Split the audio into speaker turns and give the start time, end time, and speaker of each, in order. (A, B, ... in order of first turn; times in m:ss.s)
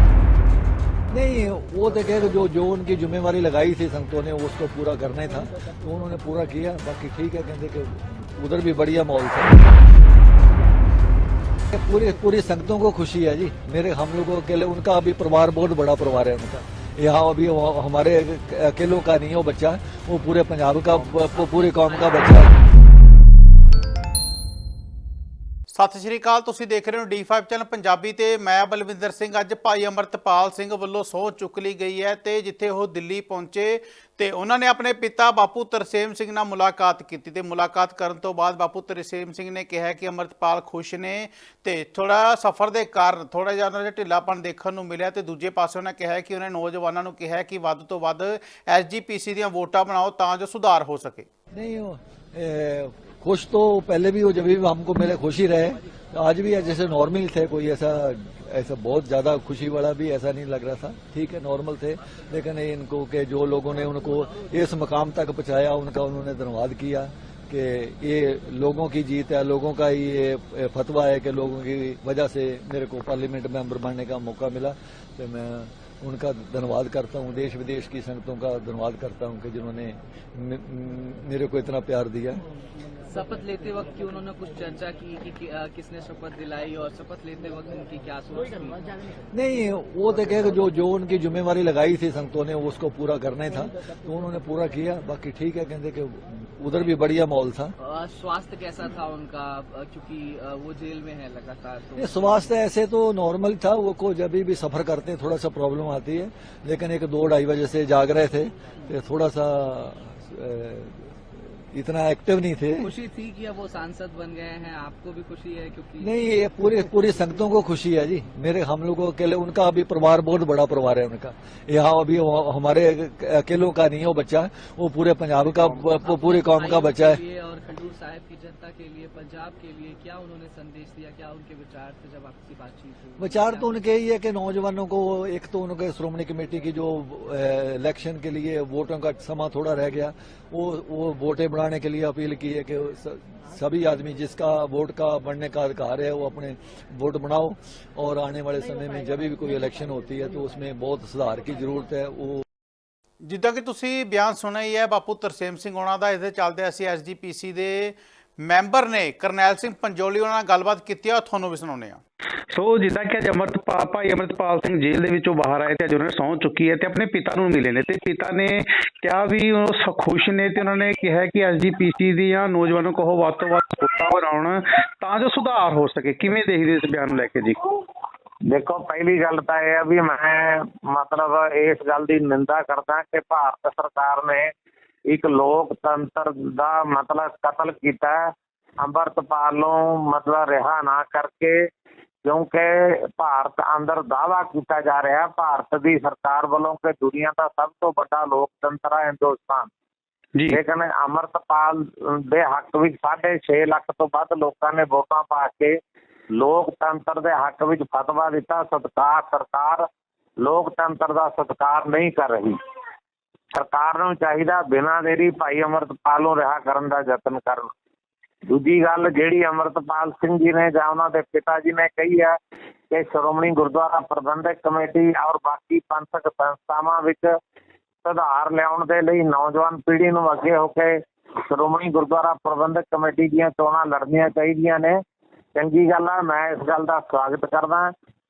0:01.1-0:09.6 A
0:11.7-0:22.5 A
0:21.0-0:22.5 B
0:25.7-0:51.3 C
0:51.5-1:22.4 A
1:23.1-1:28.9 B
1:29.3-1:37.8 A
1:37.8-1:42.5 B
1:42.0-1:52.9 A
1:52.8-1:56.2 B
1:56.0-2:07.2 A
2:05.8-2:13.9 B
2:13.2-2:32.4 A
2:33.2-2:42.0 C
2:42.5-2:57.6 D
2:58.5-3:04.5 E
3:05.1-3:11.6 E
3:12.2-3:19.7 E
3:20.5-3:25.8 E
3:26.4-3:29.9 E
3:30.4-3:32.6 E
3:33.5-3:37.7 E
3:38.5-3:42.4 E
3:42.9-3:47.3 E
3:48.0-3:55.0 E
3:55.6-3:57.9 E